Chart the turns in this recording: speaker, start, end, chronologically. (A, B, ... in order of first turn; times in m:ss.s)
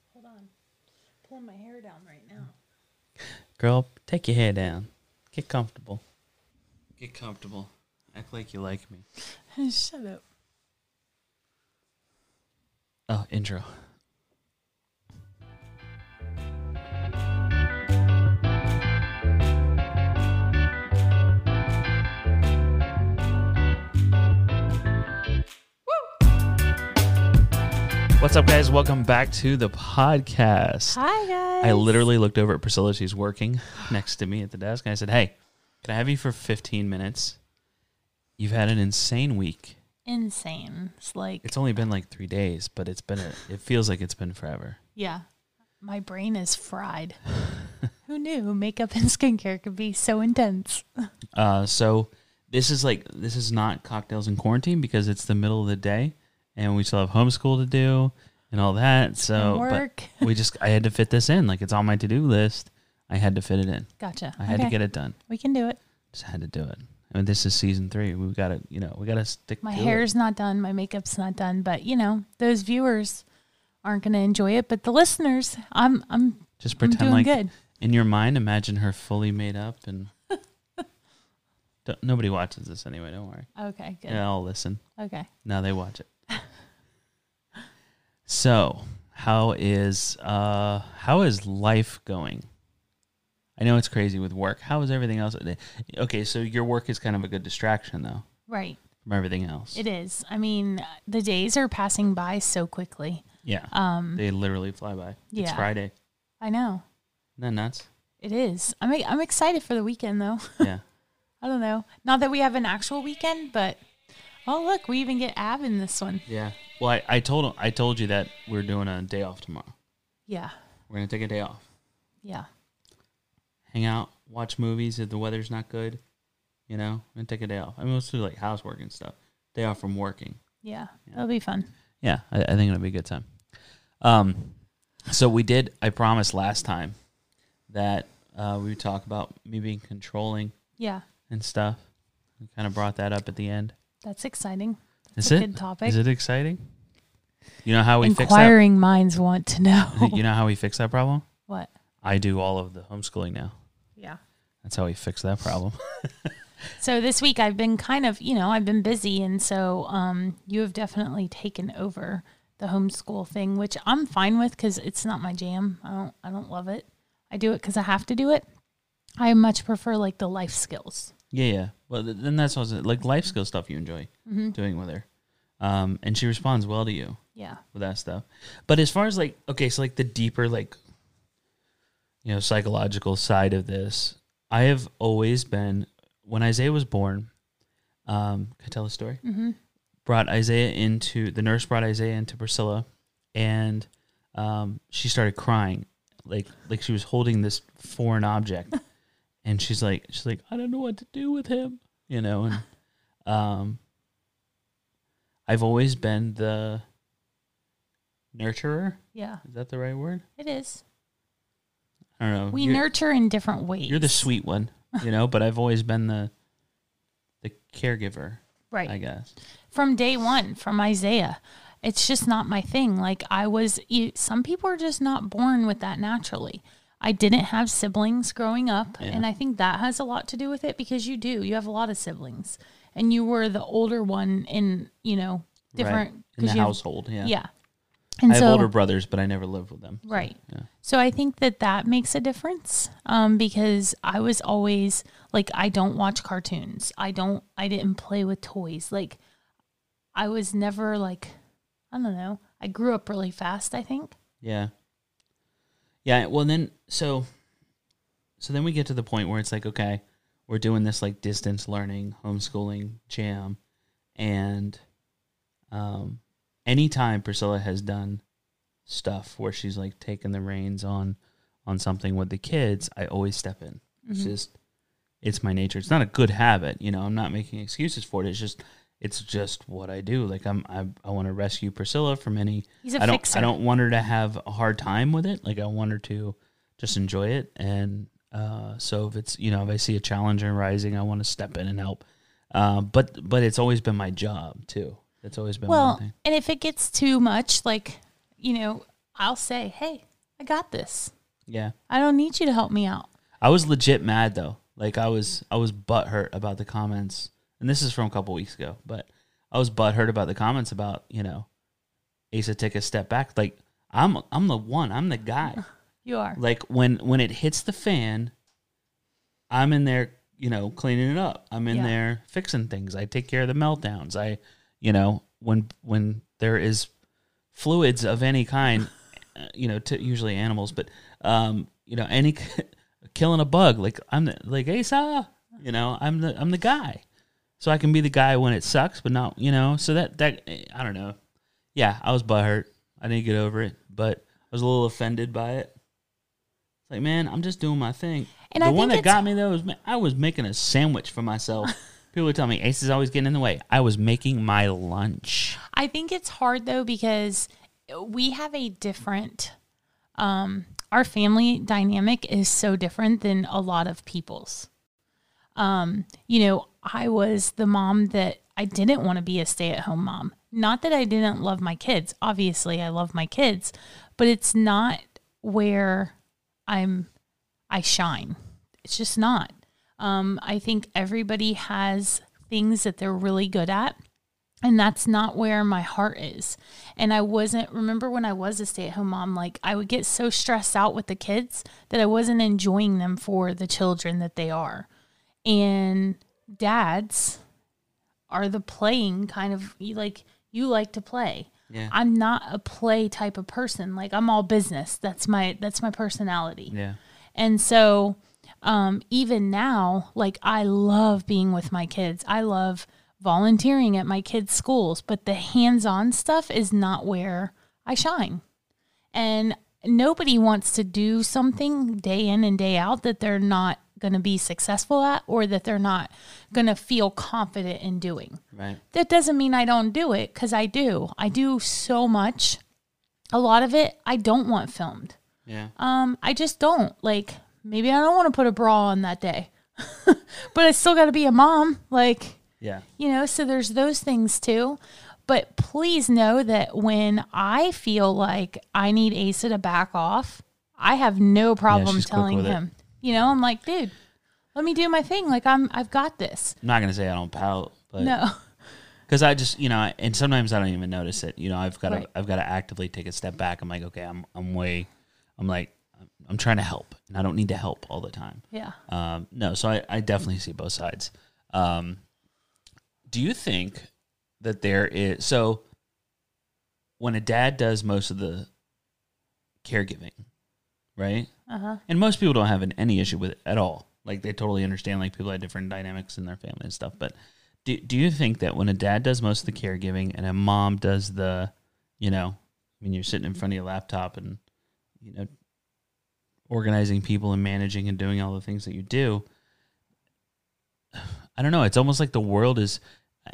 0:00.1-0:00.5 A
0:01.2-0:02.6 A
0:03.6-0:06.0 B
0:07.0-0:09.0 B
0:09.6-0:10.2 A
0:13.1-0:13.7 B
0:28.2-0:31.0 B
0:30.9-0:32.1 A
0:31.6-0:37.4 B
0:38.4-0:39.8 B
0:40.1-0:41.5 A
0:41.4-0:44.8 B
0:45.0-0:45.2 A
0:45.8-0:47.3 A
0:48.1-0:50.9 A
0:51.4-1:05.2 B
0:59.3-1:00.3 A
1:04.0-1:04.8 A
1:05.3-1:05.8 A
1:06.1-1:10.1 B
1:09.6-1:13.2 A
1:13.8-1:17.5 A
1:16.6-1:20.1 B
1:21.8-1:23.5 B
1:23.6-1:24.2 A
1:24.1-1:24.8 B
1:25.0-1:25.3 A
1:25.4-1:26.1 B
1:28.3-1:32.5 B
1:33.6-1:38.3 B
1:38.5-1:38.8 A
1:39.0-1:39.8 B
1:39.8-1:44.2 A
1:43.4-1:45.9 B
1:45.3-1:45.7 A
1:46.4-1:46.8 A
1:47.4-1:47.9 B
1:48.2-1:50.7 A
1:51.4-1:53.8 A
1:54.5-1:56.2 A
1:56.3-1:59.7 B
2:00.3-2:00.5 A
2:00.9-2:01.6 B
2:03.7-2:06.0 B
2:06.7-2:10.4 B
2:10.6-2:11.7 A
2:12.0-2:13.3 B
2:14.0-2:17.0 B
2:17.7-2:20.6 B
2:20.8-2:21.0 A
2:21.3-2:21.8 B
2:22.4-2:23.8 B
2:24.0-2:26.0 A
2:25.2-2:26.6 B
2:27.6-2:28.6 B
2:28.0-2:30.2 A
2:29.9-2:31.2 B
2:32.0-2:33.5 B
2:34.6-2:36.3 B
2:36.8-2:48.5 A
2:49.2-2:51.1 A
2:51.3-2:55.1 B
2:54.3-2:54.6 A
2:55.6-2:57.2 B
2:57.4-2:57.6 A
2:57.7-3:00.8 B
3:02.2-3:07.3 B
3:08.1-3:09.2 B
3:09.2-3:09.6 A
3:10.1-3:18.8 B
3:19.4-3:22.7 B
3:23.3-3:23.8 B
3:25.5-3:26.8 B
3:28.3-3:30.2 B
3:29.2-3:29.4 A
3:30.4-3:30.8 A
3:32.2-3:32.8 B
3:32.5-3:34.3 A
3:33.9-3:36.3 B
3:37.4-3:39.3 B
3:39.7-3:57.5 A
3:49.0-3:49.3 B
3:55.8-3:57.4 B
3:58.2-3:58.7 A
3:58.3-4:00.7 B
4:00.0-4:09.2 A
4:10.2-4:11.4 A
4:11.9-4:14.2 A
4:14.4-4:14.7 B
4:16.0-4:17.3 B
4:18.4-4:23.6 B
4:24.2-4:24.8 B
4:25.7-4:28.2 B
4:28.9-4:34.5 B
4:34.1-4:34.4 A
4:35.2-4:56.1 B
4:42.8-4:43.6 A
4:55.7-5:01.1 A
5:01.5-5:01.7 B
5:01.9-5:03.1 A
5:03.4-5:11.5 B
5:12.3-5:15.6 B
5:15.6-5:16.4 A
5:16.4-5:18.3 B
5:19.5-5:26.9 B
5:21.7-5:21.9 A
5:27.5-5:37.0 B
5:37.6-5:41.2 B
5:41.8-5:45.7 B
5:46.9-5:55.6 B
5:48.5-5:49.2 A
5:55.7-5:59.5 A
6:00.2-6:04.7 A
6:05.6-6:16.2 A
6:16.7-6:17.1 A
6:17.7-6:24.0 A
6:24.6-6:34.9 A
6:35.4-6:37.4 A
6:38.3-6:46.7 A
6:41.7-6:42.0 B
6:46.7-6:47.0 B
6:47.4-6:58.4 A
6:59.1-7:08.4 A
7:08.5-7:08.8 B
7:08.9-7:12.6 A
7:13.3-7:15.2 A
7:15.5-7:15.7 B
7:15.8-7:22.4 A
7:23.0-7:33.9 A
7:31.7-7:32.6 B
7:34.6-7:36.6 A
7:36.6-7:38.2 B
7:38.0-7:38.3 A
7:39.1-7:52.0 B
7:48.5-7:48.8 A
7:53.1-7:53.9 B
7:54.4-7:55.6 B
7:57.0-7:58.5 B
7:59.6-8:00.2 B
8:01.0-8:01.3 B
8:01.5-8:01.8 A
8:01.9-8:07.1 B
8:07.6-8:14.4 B
8:15.0-8:15.3 B
8:16.5-8:19.2 B
8:21.0-8:22.8 B